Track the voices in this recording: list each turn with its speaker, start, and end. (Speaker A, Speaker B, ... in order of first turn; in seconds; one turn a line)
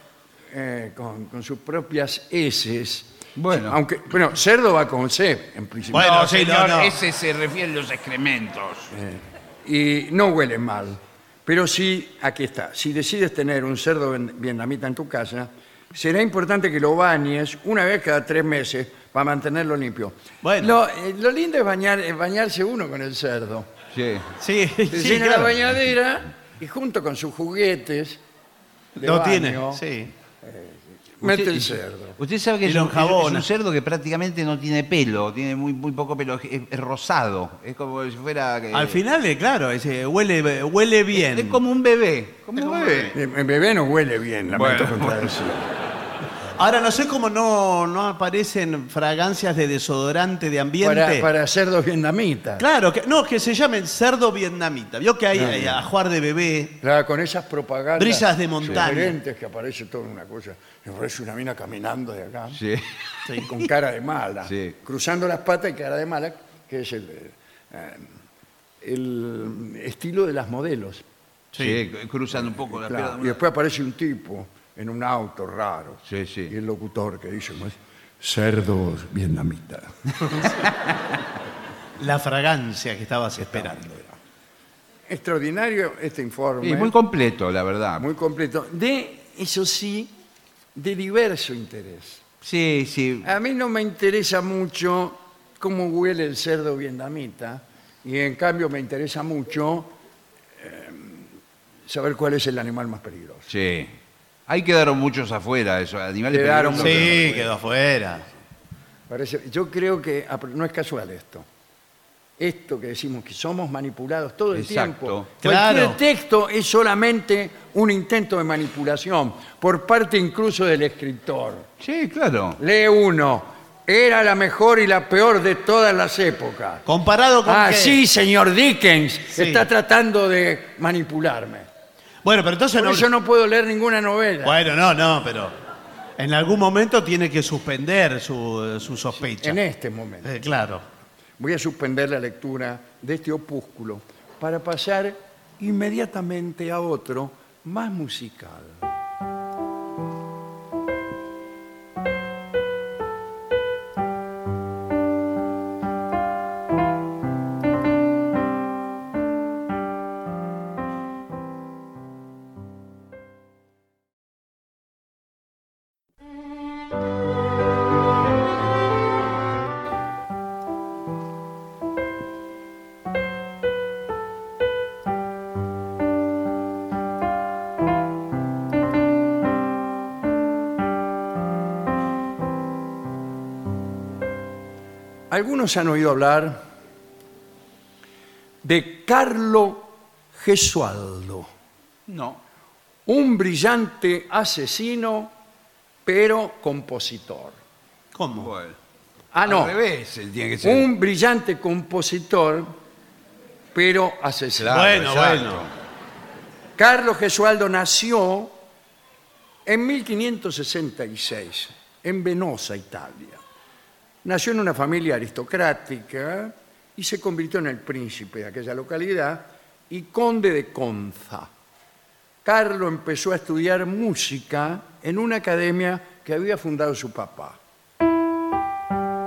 Speaker A: 0.5-6.3
Speaker B: 3.4-3.8
Speaker C: 5.9-7.0
Speaker B: 6.0-8.9
Speaker A: 8.9-23.7
Speaker C: 20.4-20.8
Speaker B: 23.9-24.4
Speaker C: 24.4-25.5
Speaker A: 24.9-28.2
Speaker C: 29.0-30.1
Speaker A: 29.0-29.8
Speaker A: 30.4-32.2
Speaker C: 31.3-31.8
Speaker B: 32.2-39.0
Speaker C: 32.6-33.5
Speaker C: 38.7-41.6
Speaker B: 41.1-43.1
Speaker C: 42.6-43.1
Speaker A: 43.1-45.7
Speaker B: 44.5-45.3
Speaker C: 46.6-51.3
Speaker A: 50.8-52.6
Speaker C: 52.6-56.8
Speaker A: 55.4-55.8
Speaker A: 56.8-62.6
Speaker C: 58.0-59.2
Speaker B: 62.6-62.9
Speaker A: 63.3-68.1
Speaker B: 64.5-64.8
Speaker A: 68.8-71.0
Speaker C: 71.5-71.8
Speaker B: 71.6-73.4
Speaker A: 72.4-80.4
Speaker B: 76.1-76.5
Speaker C: 82.0-83.8
Speaker A: 83.4-84.2
Speaker A: 85.1-87.0
Speaker B: 86.6-88.0
Speaker A: 88.0-90.1
Speaker A: 90.8-92.2
Speaker B: 92.4-93.3
Speaker A: 93.2-99.9
Speaker A: 100.6-101.3
Speaker A: 101.9-103.5
Speaker B: 103.5-103.9
Speaker B: 104.5-107.4
Speaker A: 106.3-107.5
Speaker C: 106.8-108.3
Speaker A: 109.1-111.5
Speaker A: 112.4-121.7
Speaker B: 114.5-115.3
Speaker C: 115.4-116.0
Speaker B: 121.8-122.6
Speaker A: 122.6-126.8
Speaker C: 126.9-128.0
Speaker A: 127.4-131.7
Speaker C: 129.3-129.7
Speaker C: 132.2-133.1
Speaker A: 132.8-134.6
Speaker C: 134.4-135.6
Speaker C: 136.2-139.6
Speaker A: 139.4-140.3
Speaker C: 140.2-140.8
Speaker A: 141.4-148.8
Speaker A: 185.3-186.7
Speaker A: 188.6-191.5
Speaker B: 192.1-192.4
Speaker A: 193.1-195.3
Speaker A: 196.1-197.6
Speaker C: 198.1-198.5
Speaker B: 198.3-198.8
Speaker A: 199.3-199.8
Speaker B: 199.4-200.9
Speaker A: 200.6-202.8
Speaker A: 203.7-204.8
Speaker B: 204.6-205.7
Speaker C: 204.7-205.7
Speaker A: 206.8-208.6
Speaker A: 209.7-213.4
Speaker A: 214.2-221.5
Speaker A: 222.4-227.6